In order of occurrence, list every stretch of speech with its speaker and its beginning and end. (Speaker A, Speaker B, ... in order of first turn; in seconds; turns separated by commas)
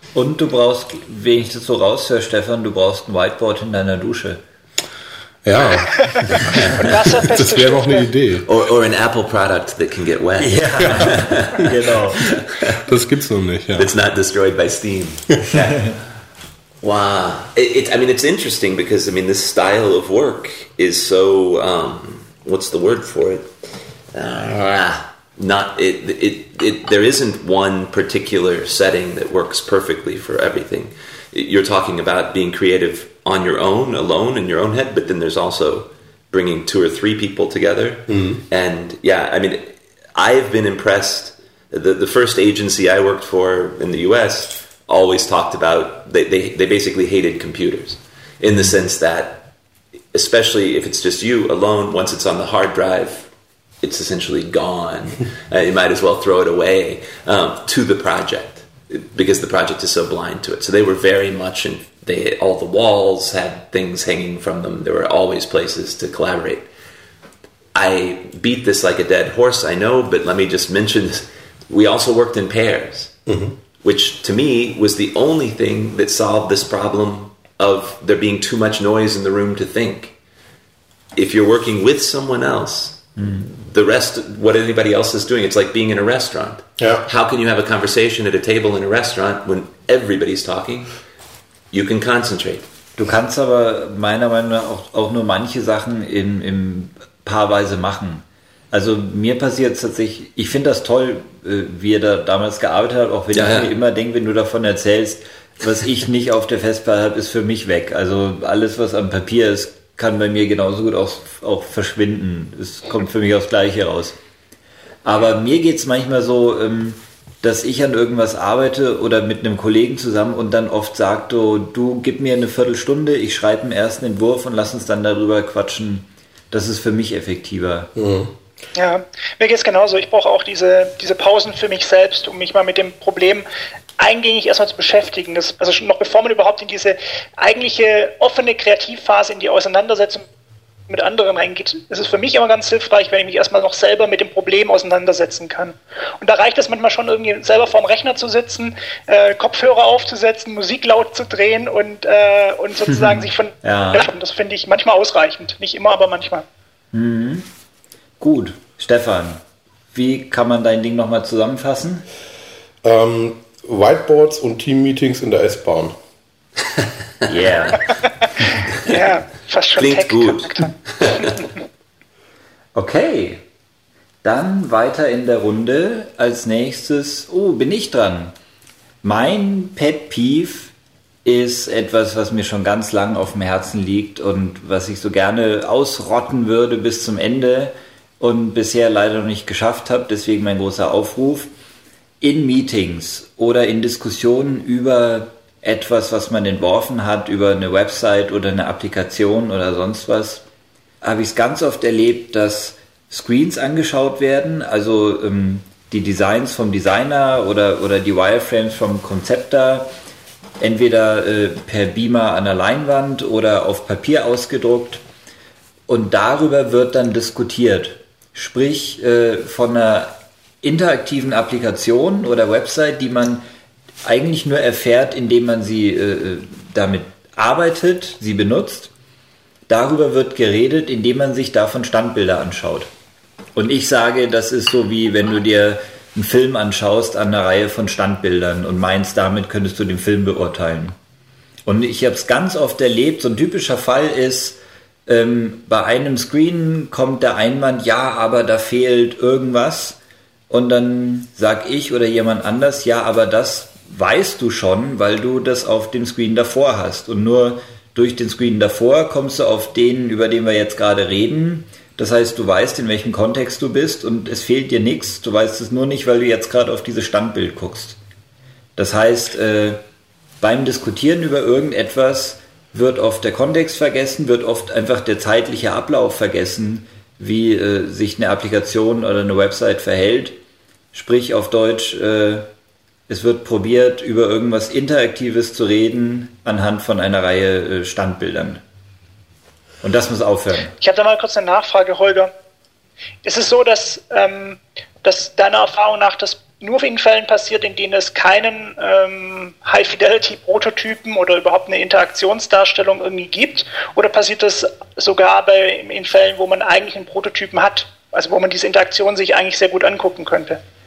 Speaker A: 0.1-4.4, Speaker B: 5.4-8.5, Speaker C: 5.9-8.1, Speaker D: 6.5-6.9, Speaker D: 8.4-12.8, Speaker A: 10.4-12.2, Speaker B: 12.8-13.9, Speaker D: 13.7-16.0, Speaker A: 15.5-15.9, Speaker D: 16.8-23.5, Speaker D: 24.1-49.5, Speaker B: 38.1-38.4, Speaker D: 50.1-53.3, Speaker D: 53.8-66.7, Speaker D: 67.7-73.1, Speaker B: 73.3-73.6, Speaker D: 73.8-80.1, Speaker D: 81.1-91.0, Speaker B: 86.8-87.0, Speaker D: 91.7-92.7, Speaker A: 93.0-114.2, Speaker D: 103.3-103.7, Speaker A: 115.0-127.9, Speaker B: 128.0-128.3, Speaker C: 128.7-133.4, Speaker C: 134.0-140.2, Speaker C: 140.9-156.4, Speaker A: 152.9-154.1, Speaker A: 156.9-157.5, Speaker A: 158.2-159.4, Speaker A: 159.9-162.1, Speaker B: 162.8-165.9, Speaker D: 167.2-167.7, Speaker A: 167.2-167.8, Speaker C: 168.7-171.5, Speaker D: 169.8-171.3, Speaker A: 172.7-173.4, Speaker A: 174.2-178.3, Speaker A: 179.0-180.7, Speaker A: 181.2-191.5, Speaker A: 192.2-200.4, Speaker A: 201.0-209.9, Speaker A: 210.6-215.0, Speaker A: 215.9-223.4, Speaker A: 224.0-228.9, Speaker A: 229.7-232.9, Speaker A: 233.5-240.9, Speaker A: 241.7-250.0, Speaker A: 250.5-268.0, Speaker A: 268.8-269.8, Speaker A: 270.4-280.4, Speaker A: 280.9-282.5, Speaker A: 283.1-288.6, Speaker A: 289.8-290.7, Speaker C: 290.8-292.3, Speaker C: 293.2-310.6